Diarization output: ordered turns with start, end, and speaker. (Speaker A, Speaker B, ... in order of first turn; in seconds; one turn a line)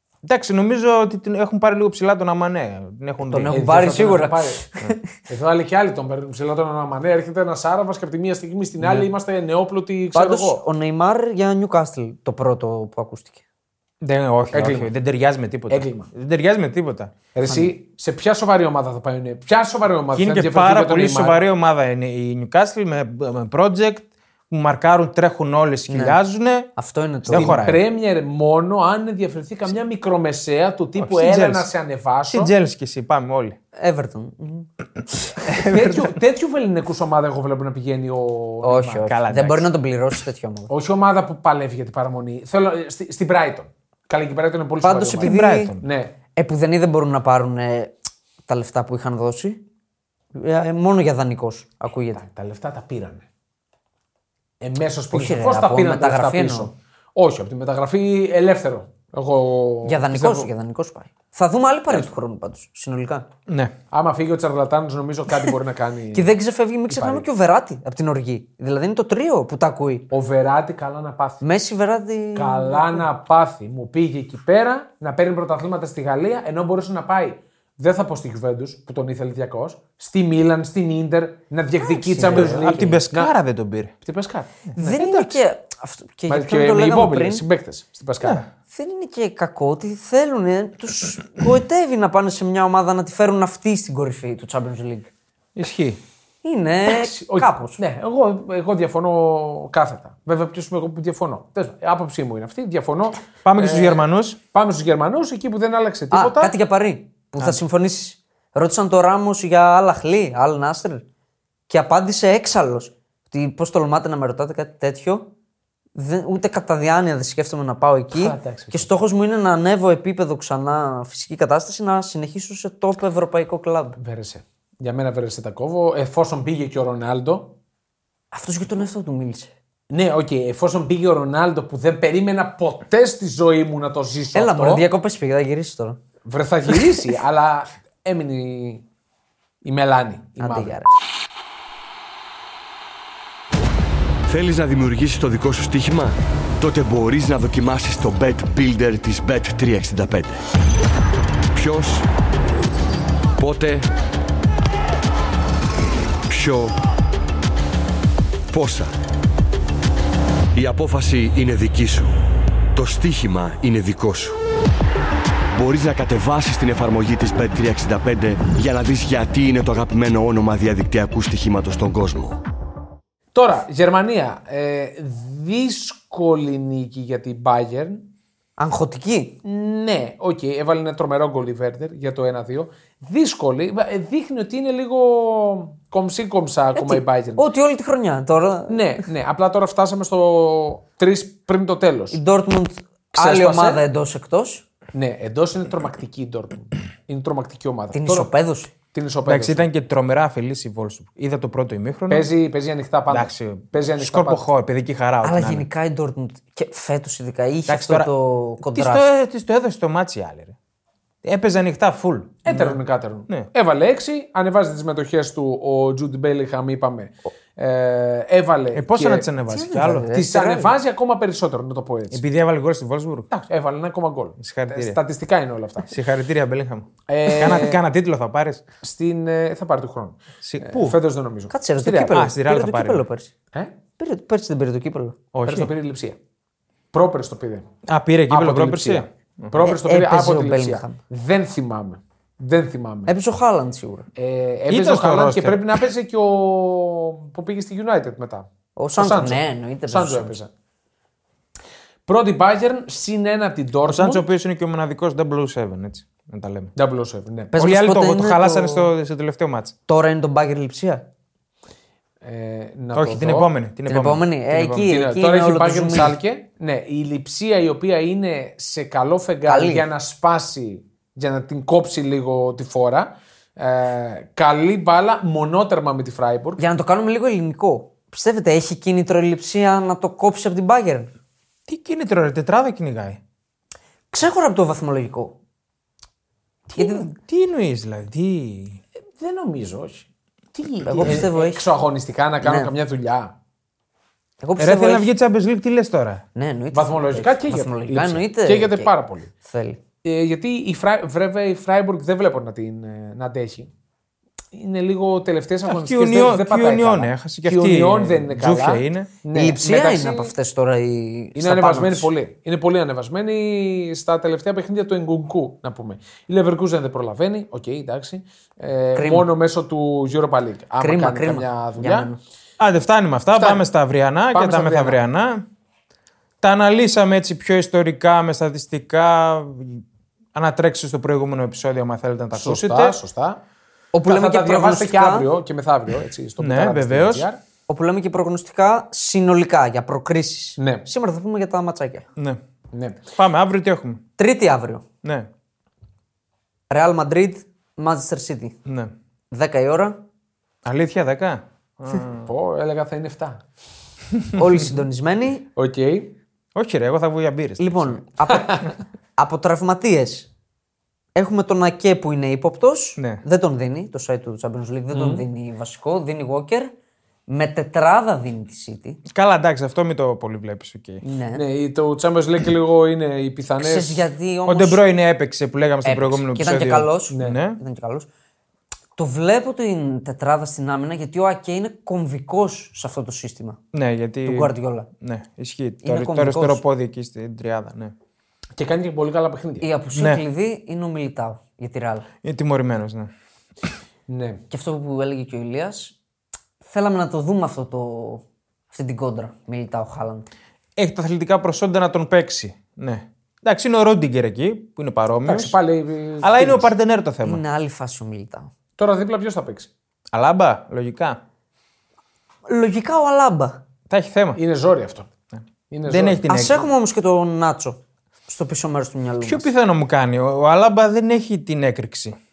Speaker A: 0.2-3.5
Speaker B: 3.2-5.0
Speaker C: 3.5-4.7
Speaker C: 5.3-10.6
Speaker A: 8.8-9.1
Speaker B: 10.1-13.4
Speaker A: 14.0-17.1
Speaker C: 14.5-14.9
Speaker C: 15.7-16.1
Speaker C: 17.4-21.4
Speaker B: 17.5-17.7
Speaker A: 20.1-26.7
Speaker B: 25.9-26.2
Speaker B: 26.8-27.6
Speaker A: 27.2-27.8
Speaker C: 27.3-32.5
Speaker A: 31.0-31.7
Speaker A: 32.3-33.6
Speaker B: 33.8-34.7
Speaker A: 35.4-36.1
Speaker C: 35.5-39.1
Speaker B: 38.6-40.7
Speaker A: 39.0-39.7
Speaker C: 40.7-46.1
Speaker B: 44.8-45.8
Speaker A: 45.2-45.8
Speaker B: 46.4-48.0
Speaker B: 48.5-49.6
Speaker B: 50.3-52.2
Speaker C: 52.1-53.3
Speaker C: 54.6-60.5
Speaker B: 55.1-56.7
Speaker B: 59.9-63.3
Speaker A: 63.5-63.7
Speaker C: 63.9-66.4
Speaker B: 66.1-70.1
Speaker C: 66.9-67.3
Speaker C: 70.1-71.4
Speaker B: 71.4-73.0
Speaker C: 72.3-83.3
Speaker B: 81.8-83.0
Speaker A: 82.2-83.9
Speaker C: 84.0-84.7
Speaker A: 84.7-85.4
Speaker B: 84.8-87.4
Speaker C: 86.3-88.5
Speaker A: 88.2-88.5
Speaker B: 88.7-95.1
Speaker A: 95.6-96.0
Speaker B: 96.4-97.8
Speaker C: 96.8-106.5
Speaker A: 103.5-104.4
Speaker B: 106.1-111.0
Speaker B: 111.7-115.3
Speaker B: 116.0-124.0
Speaker C: 118.1-118.9
Speaker C: 124.0-127.5
Speaker B: 128.3-129.5
Speaker C: 129.9-134.8
Speaker B: 134.3-136.0
Speaker C: 136.3-138.8
Speaker C: 139.6-140.8
Speaker B: 140.4-140.9
Speaker D: 144.3-150.4
Speaker D: 151.5-152.1
Speaker D: 153.4-153.9
Speaker D: 156.3-156.8
Speaker D: 158.5-158.9
Speaker D: 160.6-162.1
Speaker D: 162.7-164.4
Speaker D: 165.5-172.4
Speaker C: 173.3-178.1
Speaker B: 178.6-179.4
Speaker C: 179.4-187.5
Speaker B: 186.8-189.0
Speaker C: 188.7-192.2
Speaker B: 192.1-194.7
Speaker C: 193.2-193.8
Speaker C: 194.9-199.7
Speaker B: 197.9-198.7
Speaker A: 199.2-202.3
Speaker C: 202.1-204.4
Speaker A: 203.1-205.7
Speaker B: 205.2-209.1
Speaker A: 207.7-208.1
Speaker A: 208.6-210.6
Speaker A: 211.2-212.7
Speaker C: 212.4-219.3
Speaker A: 218.7-220.7
Speaker B: 219.5-220.6
Speaker C: 220.1-222.2
Speaker A: 222.1-223.4
Speaker C: 223.5-225.9
Speaker A: 224.4-225.0
Speaker A: 225.9-228.6
Speaker C: 227.1-227.8
Speaker C: 228.8-232.2
Speaker A: 230.4-231.0
Speaker B: 231.5-233.3
Speaker A: 231.9-233.1
Speaker B: 234.0-235.2
Speaker A: 235.3-235.7
Speaker C: 235.5-236.2
Speaker C: 236.9-237.7
Speaker A: 237.9-239.5
Speaker C: 238.3-243.1
Speaker B: 239.6-241.0
Speaker B: 243.1-244.1
Speaker C: 244.2-250.5
Speaker A: 244.7-245.7
Speaker B: 248.8-250.4
Speaker C: 252.1-254.2
Speaker A: 253.8-256.7
Speaker C: 256.8-257.5
Speaker B: 257.5-258.9
Speaker A: 257.6-259.8
Speaker B: 259.9-261.1
Speaker C: 262.2-263.5
Speaker A: 262.9-264.9
Speaker B: 263.9-266.2
Speaker C: 264.9-276.6
Speaker B: 269.5-269.9
Speaker B: 276.6-281.1
Speaker A: 281.7-283.2
Speaker B: 284.1-285.4
Speaker C: 286.7-287.0
Speaker B: 286.8-287.1
Speaker A: 286.8-288.8
Speaker C: 289.2-293.3
Speaker B: 290.8-291.7
Speaker B: 292.4-292.7
Speaker B: 294.4-295.1
Speaker A: 294.6-296.2
Speaker B: 296.4-298.9
Speaker C: 296.7-299.3
Speaker B: 299.4-299.8
Speaker C: 300.0-303.7
Speaker C: 304.5-310.3
Speaker A: 305.7-309.1
Speaker B: 309.3-312.1
Speaker C: 311.4-322.1
Speaker B: 318.9-319.3
Speaker B: 320.8-322.2
Speaker A: 322.6-325.4
Speaker C: 323.3-323.6
Speaker C: 324.3-325.0
Speaker A: 326.4-333.0
Speaker C: 332.3-333.4
Speaker B: 333.9-335.3
Speaker C: 334.1-337.4
Speaker A: 336.4-337.3
Speaker B: 337.7-342.1
Speaker C: 340.6-340.9
Speaker C: 342.7-343.0
Speaker A: 343.2-344.0
Speaker B: 344.2-344.8
Speaker A: 345.0-345.3
Speaker B: 346.7-348.6
Speaker A: 348.6-348.9
Speaker B: 349.3-350.0
Speaker A: 350.6-352.3
Speaker C: 352.1-353.4
Speaker B: 354.3-355.5
Speaker C: 355.6-356.1
Speaker A: 356.6-358.0
Speaker B: 357.6-360.3
Speaker C: 358.3-358.7
Speaker B: 361.1-366.7
Speaker A: 363.0-363.2
Speaker C: 364.9-365.2
Speaker B: 367.3-369.0
Speaker A: 369.1-371.0
Speaker B: 371.0-371.4
Speaker C: 371.3-374.0
Speaker B: 373.6-374.8
Speaker A: 374.5-377.6
Speaker B: 375.9-378.1
Speaker C: 377.1-377.4
Speaker B: 379.0-383.6
Speaker A: 383.7-387.9
Speaker B: 384.2-384.9
Speaker B: 385.8-386.6
Speaker C: 388.6-389.7
Speaker B: 389.6-392.1
Speaker A: 389.9-390.2
Speaker A: 392.2-393.1
Speaker C: 394.1-394.4
Speaker B: 394.5-395.9
Speaker B: 396.6-400.3
Speaker A: 400.8-405.6
Speaker C: 405.2-406.7
Speaker A: 406.2-407.4
Speaker B: 407.2-408.5
Speaker C: 408.8-409.7
Speaker A: 410.1-411.2
Speaker B: 412.5-413.6
Speaker A: 413.9-414.4
Speaker C: 414.4-415.1
Speaker C: 415.7-416.3
Speaker A: 415.9-416.7
Speaker B: 416.3-419.5
Speaker A: 419.2-422.2